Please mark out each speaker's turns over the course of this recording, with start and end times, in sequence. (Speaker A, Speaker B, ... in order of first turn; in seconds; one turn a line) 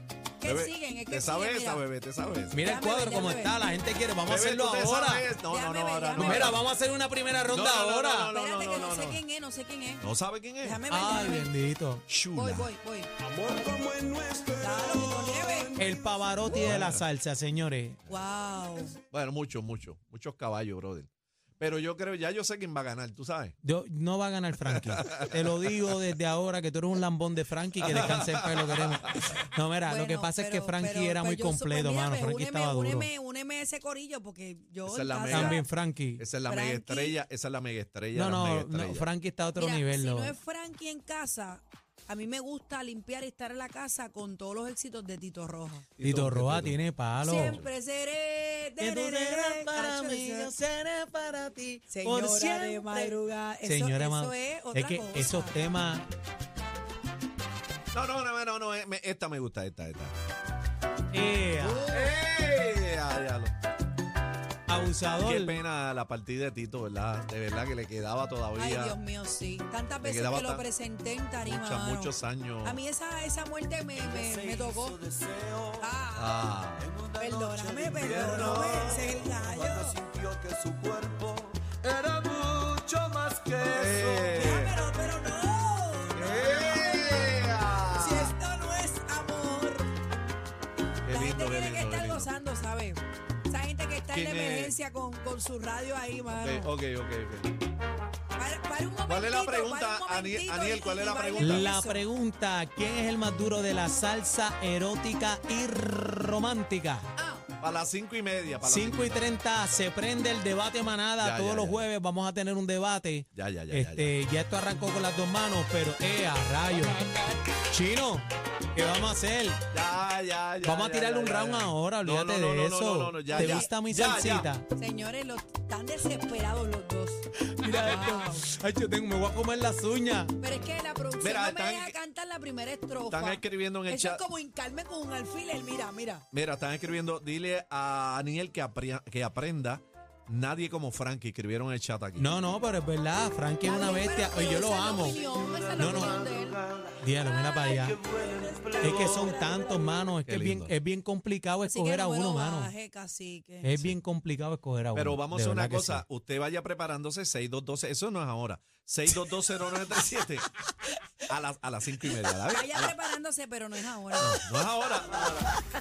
Speaker A: 0.4-1.8
Speaker B: 0.4-2.6
Speaker C: 2.5-5.3
Speaker A: 2.6-3.5
Speaker B: 4.3-6.7
Speaker A: 5.5-6.7
Speaker C: 6.2-8.3
Speaker B: 7.5-9.2
Speaker A: 8.3-10.1
Speaker B: 10.0-10.8
Speaker A: 10.6-11.5
Speaker C: 10.9-12.0
Speaker B: 12.1-12.7
Speaker A: 12.3-13.1
Speaker D: 13.3-16.7
Speaker A: 14.6-15.8
Speaker C: 15.8-18.0
Speaker B: 16.4-17.1
Speaker A: 18.1-18.9
Speaker B: 19.1-21.1
Speaker B: 21.6-23.6
Speaker C: 23.6-33.1
Speaker B: 24.7-25.7
Speaker B: 27.8-29.3
Speaker A: 29.9-35.6
Speaker B: 34.9-35.6
Speaker C: 35.3-36.2
Speaker B: 36.2-39.1
Speaker A: 36.5-37.2
Speaker C: 38.1-40.4
Speaker A: 39.6-45.9
Speaker B: 46.0-46.8
Speaker C: 46.0-47.6
Speaker A: 47.2-50.5
Speaker B: 47.3-47.7
Speaker C: 48.8-56.1
Speaker A: 51.9-55.6
Speaker B: 57.9-60.1
Speaker C: 61.1-61.9
Speaker A: 61.6-62.1
Speaker B: 61.9-63.5
Speaker C: 64.7-65.6
Speaker B: 65.0-69.0
Speaker A: 68.6-72.1
Speaker B: 70.0-70.7
Speaker B: 71.4-72.8
Speaker A: 72.6-75.0
Speaker D: 74.0-75.8
Speaker A: 75.8-76.4
Speaker B: 76.2-76.9
Speaker D: 76.8-84.3
Speaker A: 77.2-80.0
Speaker B: 78.1-79.2
Speaker B: 83.7-84.7
Speaker A: 84.3-86.8
Speaker B: 86.2-88.3
Speaker A: 88.0-90.0
Speaker B: 91.1-92.3
Speaker A: 91.1-96.7
Speaker B: 94.1-94.7
Speaker B: 96.4-97.5
Speaker A: 98.4-102.0
Speaker B: 99.1-101.7
Speaker C: 101.4-107.1
Speaker A: 107.2-107.5
Speaker B: 107.6-109.3
Speaker C: 108.6-117.1
Speaker B: 111.2-111.9
Speaker B: 113.3-114.2
Speaker C: 117.7-119.6
Speaker B: 119.7-124.5
Speaker C: 120.6-124.7
Speaker A: 123.3-123.7
Speaker A: 124.8-128.5
Speaker C: 127.6-130.4
Speaker A: 130.4-136.2
Speaker B: 131.2-132.0
Speaker B: 133.1-134.2
Speaker B: 136.3-142.4
Speaker C: 142.2-145.2
Speaker A: 143.7-146.6
Speaker C: 145.8-146.2
Speaker C: 147.0-148.0
Speaker D: 147.7-149.7
Speaker A: 148.8-149.4
Speaker C: 148.8-152.7
Speaker B: 148.8-149.4
Speaker B: 150.3-150.8
Speaker A: 151.7-153.7
Speaker C: 153.6-156.0
Speaker B: 154.9-160.5
Speaker B: 161.3-163.0
Speaker A: 162.5-164.4
Speaker B: 164.2-165.5